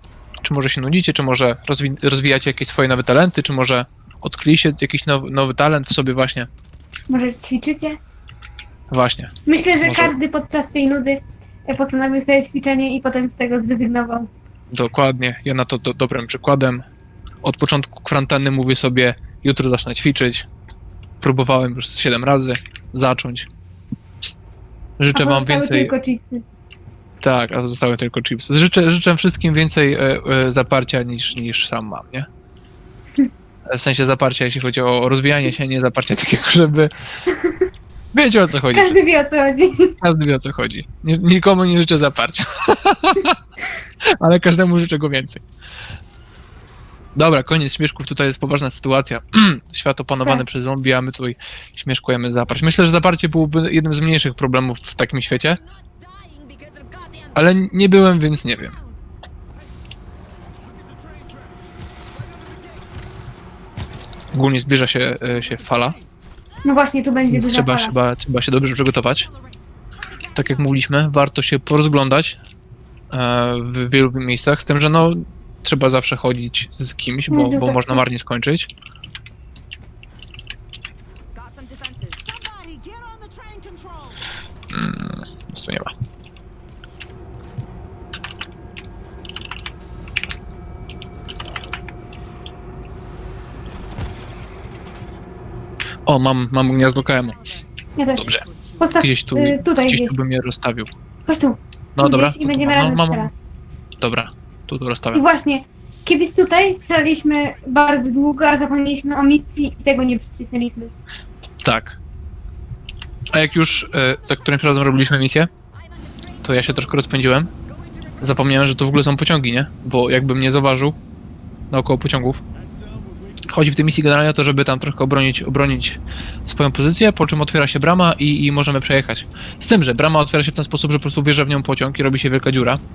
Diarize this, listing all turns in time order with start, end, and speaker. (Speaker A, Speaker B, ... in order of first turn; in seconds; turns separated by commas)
Speaker A: 0.4-6.5, Speaker B: 7.1-8.0, Speaker A: 8.9-10.2, Speaker B: 9.4-14.3, Speaker A: 14.7-16.8, Speaker A: 17.4-20.5, Speaker A: 21.2-23.5, Speaker A: 25.0-25.9, Speaker B: 25.1-26.4, Speaker A: 27.2-32.3, Speaker A: 33.6-36.9, Speaker B: 37.3-37.7, Speaker A: 38.1-39.0, Speaker B: 38.7-40.0, Speaker A: 40.0-43.4, Speaker A: 44.0-45.4, Speaker A: 47.1-55.6, Speaker C: 55.5-59.0, Speaker A: 57.3-58.7, Speaker D: 60.5-62.9, Speaker A: 64.3-66.0, Speaker D: 65.2-66.1, Speaker B: 66.6-67.9, Speaker A: 67.3-69.3, Speaker D: 69.3-70.3, Speaker A: 70.3-72.4, Speaker A: 73.1-78.7, Speaker B: 77.3-78.0, Speaker C: 81.3-82.5, Speaker D: 82.3-84.2, Speaker A: 84.7-85.9, Speaker A: 96.0-97.4, Speaker C: 96.9-99.0, Speaker B: 98.0-100.1, Speaker A: 98.2-98.5, Speaker A: 99.0-100.9, Speaker B: 101.3-103.3, Speaker A: 102.0-103.3, Speaker A: 104.0-105.2, Speaker B: 105.1-110.9, Speaker A: 111.6-112.0, Speaker A: 113.3-115.5, Speaker C: 113.3-115.1, Speaker C: 115.7-119.0, Speaker A: 116.4-117.5, Speaker A: 118.2-121.0, Speaker A: 121.7-122.4, Speaker D: 122.5-123.9, Speaker A: 123.5-132.8